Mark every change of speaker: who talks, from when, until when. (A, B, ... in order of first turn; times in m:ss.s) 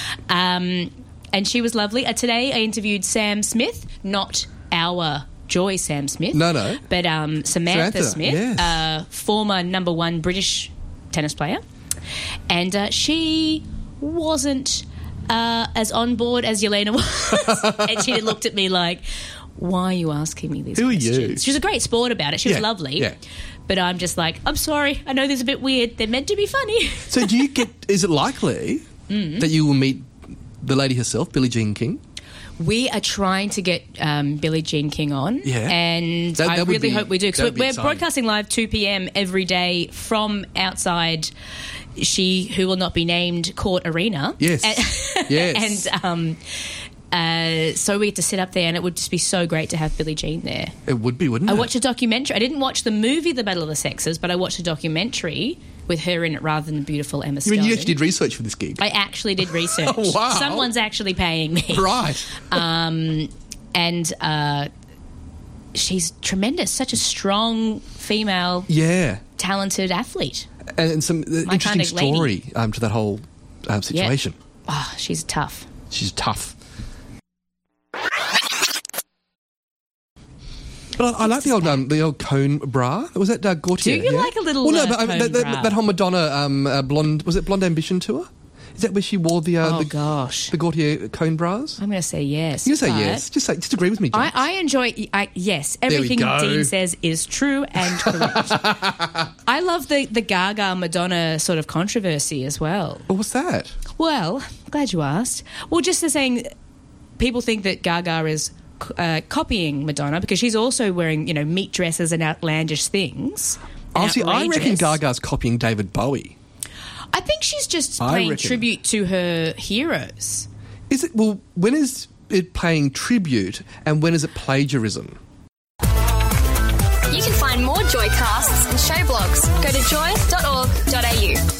0:00.3-0:11.6 A
0:06.3-0:06.8 B
0:07.7-0:08.8 B
0:12.5-0:23.1 A
0:17.4-0:18.2 B
0:20.8-0:21.5 B
0:22.4-0:23.2 B
0:23.7-0:27.3 A
0:27.1-0:28.9 B
0:29.1-0:29.5 A
0:29.4-0:30.1 B
0:30.6-0:32.0 B
0:32.6-0:41.3 A
0:35.4-0:35.8 B
0:36.4-0:38.0 B
0:42.0-0:46.4 A
0:44.4-0:45.9 B
0:47.1-0:50.7 A
0:50.9-0:51.7 B
0:51.5-0:58.0 A
0:57.4-0:58.8 B
0:58.8-1:04.7 A
0:59.4-1:00.7 B
1:01.7-1:02.5 B
1:05.7-1:08.7 A
1:08.7-1:09.2 B
1:09.4-1:10.5 A
1:10.8-1:14.4 B
1:11.4-1:12.3 A
1:14.7-1:15.7 A
1:15.9-1:16.6 B
1:21.0-1:30.0 B
1:21.2-1:21.8 A
1:23.8-1:25.8 A
1:29.6-1:30.5 A
1:30.5-1:31.8 B
1:31.8-1:33.2 A
1:32.6-1:34.4 B
1:34.1-1:38.7 A
1:35.9-1:36.7 B
1:37.8-1:39.2 B
1:39.5-1:43.0 A
1:43.1-1:43.8 B
1:44.0-1:46.5 A
1:47.2-1:55.0 A
1:54.0-1:56.4 B
1:57.1-2:00.5 A
1:58.0-1:58.7 B
2:00.9-2:05.2 B
2:07.1-2:11.4 C